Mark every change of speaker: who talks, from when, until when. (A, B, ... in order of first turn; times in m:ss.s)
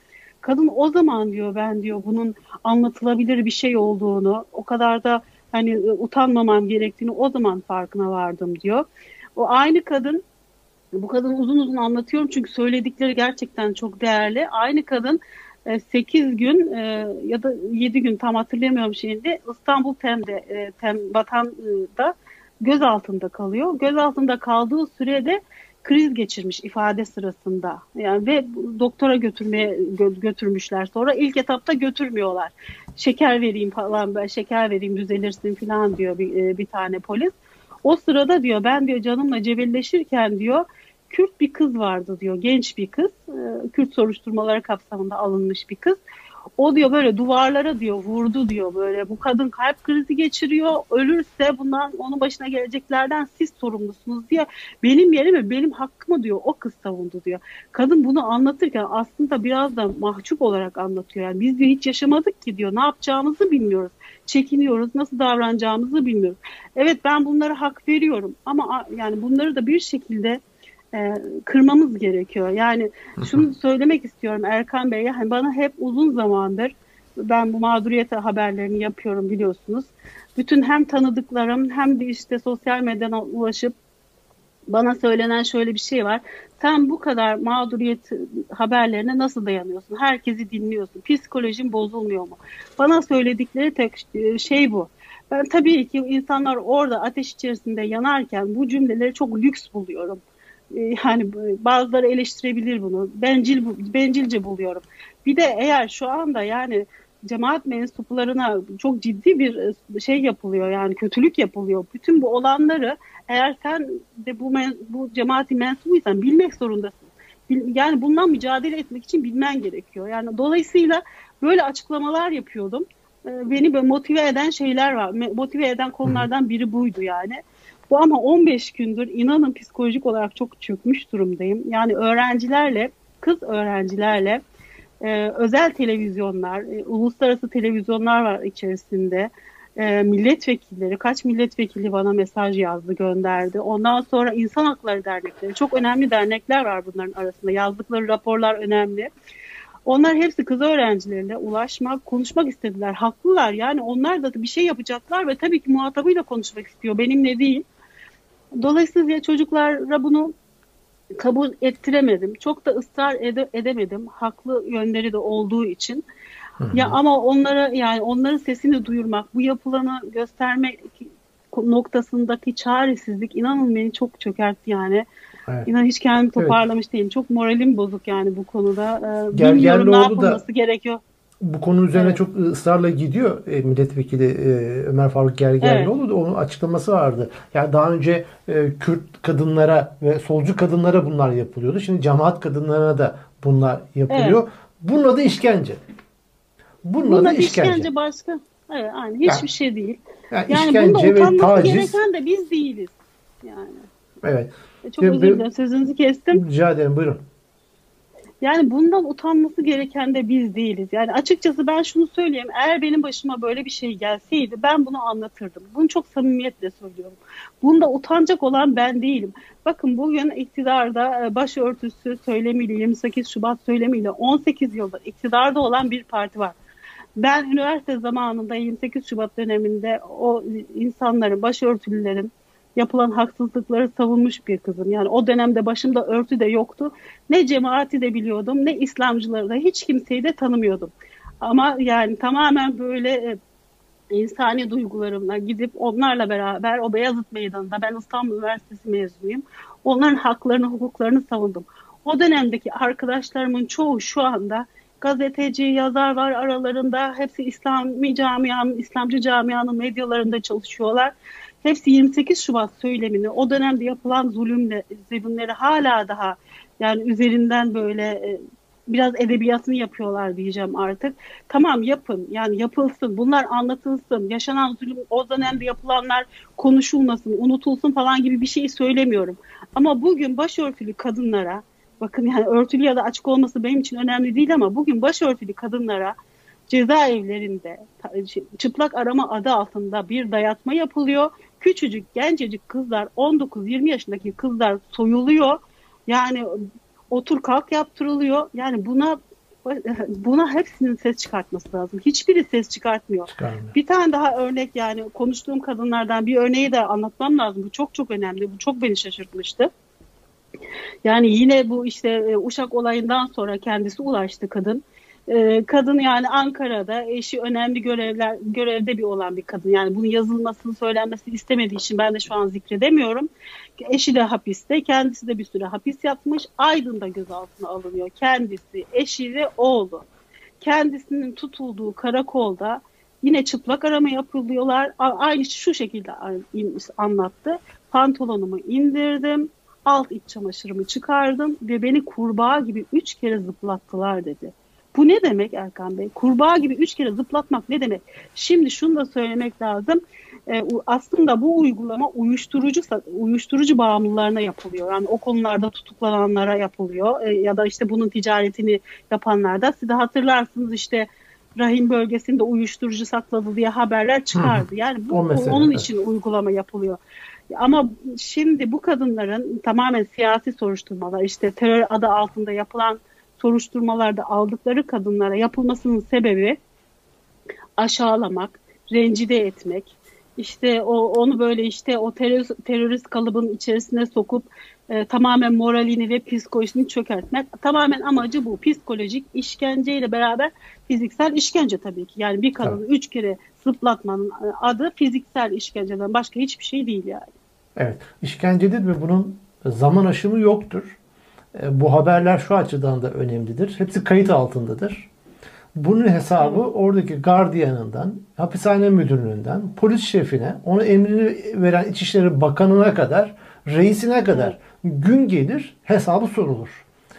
0:00.4-0:10.2 A
0:11.0-0:37.3 A
0:37.8-0:46.0 A
0:46.6-1:10.4 A
1:10.9-1:23.8 A
1:13.2-1:13.5 B
1:24.7-2:14.4 A
2:15.0-2:29.1 A
2:29.9-2:37.7 A
2:38.6-2:40.3 A
2:41.2-2:46.0 A
2:46.6-2:47.0 B
2:46.7-2:55.1 A
2:55.7-3:01.0 A
2:59.3-3:00.4 B
3:01.4-3:15.8 B
3:01.9-3:02.2 A
3:05.6-3:05.9 A
3:14.1-3:14.4 A
3:16.8-3:17.9 B
3:17.0-3:23.8 A
3:20.3-3:22.0 B
3:24.2-3:25.4 B
3:24.9-3:26.4 A
3:26.3-3:27.2 B
3:28.4-3:46.6 A
3:47.2-4:03.4 A
4:04.1-4:46.2 A
4:46.7-5:09.7 A
5:03.3-5:03.7 B
5:11.0-5:30.1 A
5:30.6-6:07.0 A
6:04.3-6:05.9 B
6:07.5-6:16.6 A
6:17.8-6:37.3 A
6:37.8-6:41.0 B
6:41.5-6:45.1 B
6:45.8-6:56.9 B